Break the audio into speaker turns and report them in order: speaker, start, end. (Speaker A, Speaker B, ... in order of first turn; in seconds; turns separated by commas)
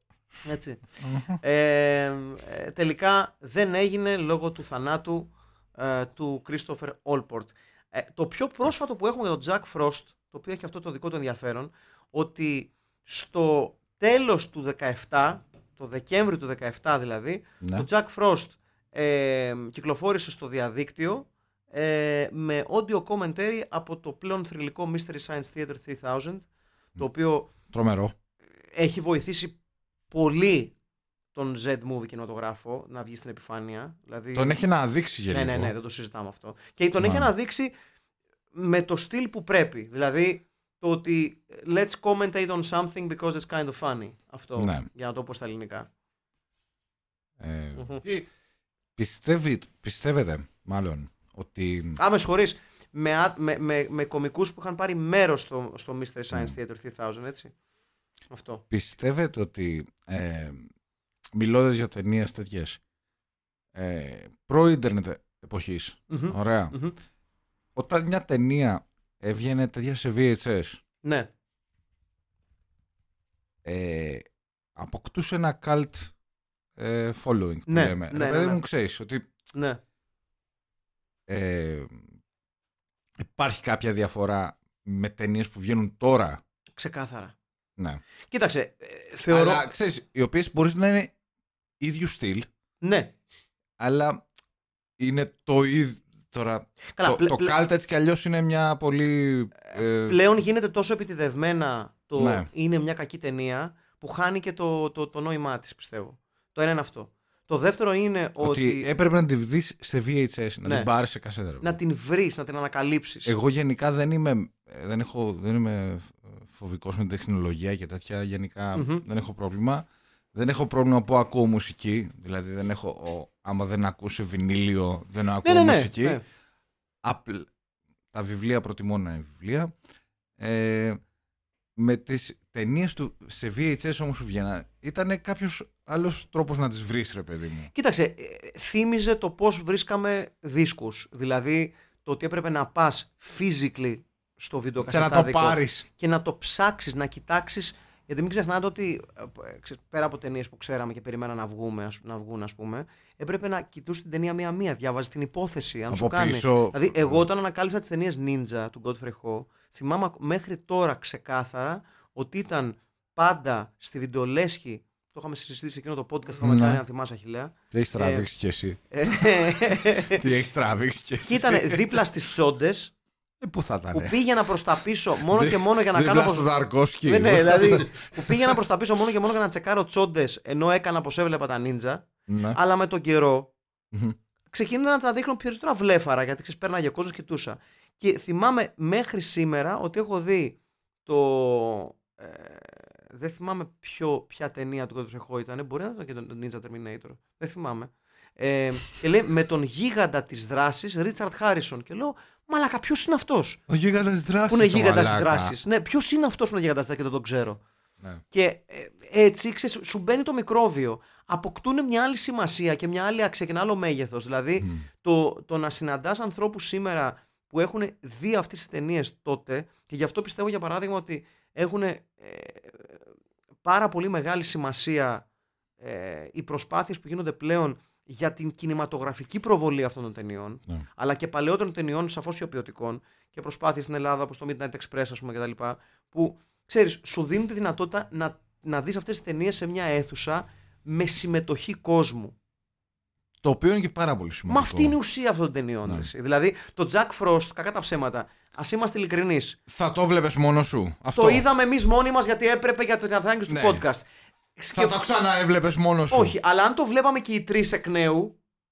Speaker A: 0.4-27.5, Speaker B: 1.0-1.4, Speaker B: 17.6-17.9, Speaker B: 27.7-28.1, Speaker A: 28.7-29.6, Speaker A: 30.1-30.7, Speaker A: 31.3-34.6, Speaker B: 34.3-35.7, Speaker A: 35.3-37.7, Speaker B: 37.0-37.3, Speaker A: 38.5-45.9, Speaker B: 44.6-44.9, Speaker B: 47.4-48.0, Speaker A: 47.8-48.0, Speaker B: 49.0-52.0, Speaker A: 52.0-57.5, Speaker A: 58.3-58.6, Speaker B: 58.7-60.7, Speaker B: 61.3-62.8, Speaker B: 63.7-66.8, Speaker A: 66.1-67.0, Speaker B: 67.8-70.8, Speaker A: 71.0-71.3, Speaker B: 73.6-74.2, Speaker B: 74.8-76.1, Speaker B: 76.8-79.3, Speaker A: 77.7-78.6, Speaker A: 79.5-79.8, Speaker B: 81.3-82.0, Speaker B: 83.2-86.4, Speaker A: 86.8-87.3, Speaker B: 87.8-88.0, Speaker A: 88.3-89.7, Speaker B: 89.3-91.1, Speaker B: 91.8-92.5, Speaker A: 92.8-93.1, Speaker B: 93.8-94.2, Speaker B: 95.0-100.2, Speaker A: 97.0-97.5, Speaker A: 100.0-108.9, Speaker B: 102.2-102.5, Speaker B: 108.4-111.8, Speaker A: 111.6-113.3, Speaker B: 113.3-126.2, Speaker A: 118.7-119.0, Speaker A: 125.4-126.2, Speaker B: 127.0-127.5, Speaker B: 128.1-129.7, Speaker B: 130.4-131.0, Speaker B: 131.8-137.7, Speaker A: 137.7-168.3, Speaker B: 144.8-145.9, Speaker B: 155.9-157.2, Speaker B: 166.4-166.8, Speaker B: 167.7-172.0, Speaker A: 168.9-170.3, Speaker A: 171.2-172.9, Speaker B: 173.4-174.2, Speaker A: 173.9-176.5, Speaker B: 175.2-178.6, Speaker A: 177.0-183.5, Speaker B: 182.3-182.6, Speaker B: 183.9-184.2, Speaker A: 184.5-203.6, Speaker B: 203.7-205.6, Speaker A: 204.5-207.6, Speaker A: 208.3-223.0, Speaker B: 214.6-214.9, Speaker A: 223.6-225.2, Speaker A: 225.8-242.3, Speaker B: 243.4-245.0, Speaker A: 244.5-249.6, Speaker B: 245.8-246.1, Speaker B: 249.7-251.4, Speaker A: 251.2-255.0, Speaker B: 253.5-253.8, Speaker B: 254.7-256.4, Speaker A: 256.1-258.4